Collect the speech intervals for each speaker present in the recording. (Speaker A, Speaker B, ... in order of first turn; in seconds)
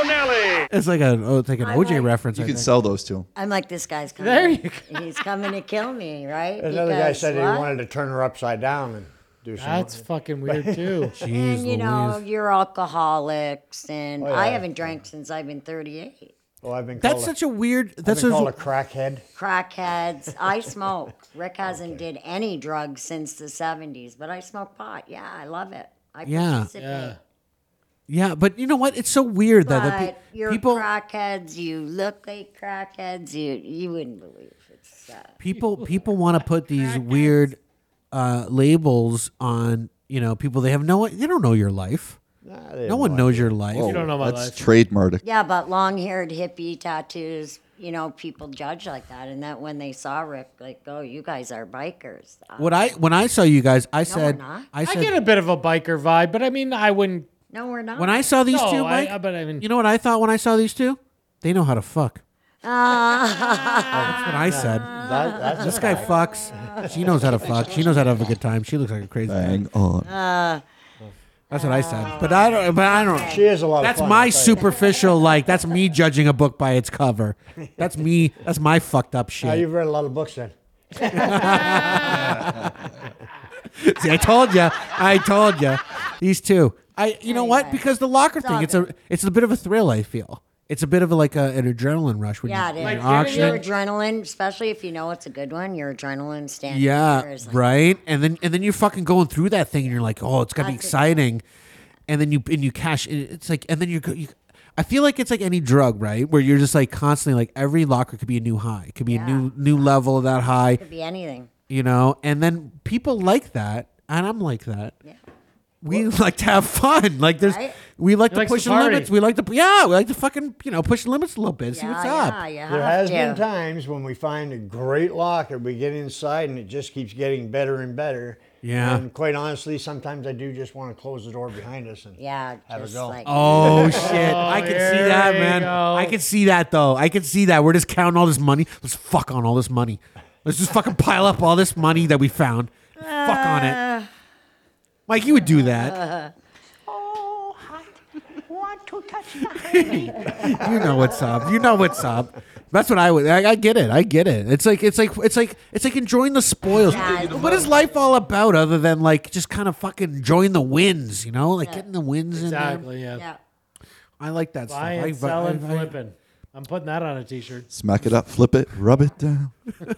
Speaker A: 0.7-2.7, 11.2-12.2, 17.0-18.5, 26.2-26.7, 28.1-30.9, 35.4-37.6, 38.1-42.2, 42.8-44.0, 52.6-55.2, 58.0-62.2, 64.0-64.9, 65.6-69.6, 71.5-79.7, 81.1-82.7, 83.7-93.6, 96.7-101.4, 102.1-110.8, 111.7-114.9, 115.8-122.4, 128.6-129.1, 133.2-143.8, 145.1-146.0, 146.9-162.9, 164.2-165.9
Speaker B: 1.6-2.1, 3.3-7.7, 11.3-16.3, 19.4-27.2, 29.6-35.4, 45.2-52.9, 54.0-54.7, 57.5-58.2, 62.6-67.8, 70.0-70.6, 71.5-73.4, 87.2-87.8, 88.4-88.9, 92.4-97.8, 100.6-101.2, 109.0-109.5, 110.8-111.5, 117.4-117.8, 121.7-123.4, 132.2-134.1, 143.0-144.1, 145.4-146.3, 150.2-150.4, 156.8-157.7
Speaker C: 2.3-3.3, 43.7-45.2, 69.3-70.1, 167.7-169.5
Speaker D: 4.2-5.0, 9.6-11.2, 26.8-27.2, 35.5-35.9, 36.7-37.4, 43.8-44.6, 54.8-57.3, 58.5-59.6, 92.8-93.6, 118.3-119.1, 133.9-136.1, 162.3-163.2, 164.7-167.7
Speaker E: 6.6-11.3, 14.2-15.0, 16.6-17.3, 18.0-19.2, 21.6-22.0, 42.4-44.1, 63.9-67.9, 73.2-74.7, 77.6-78.0, 79.4-83.1, 122.7-134.4, 150.4-151.2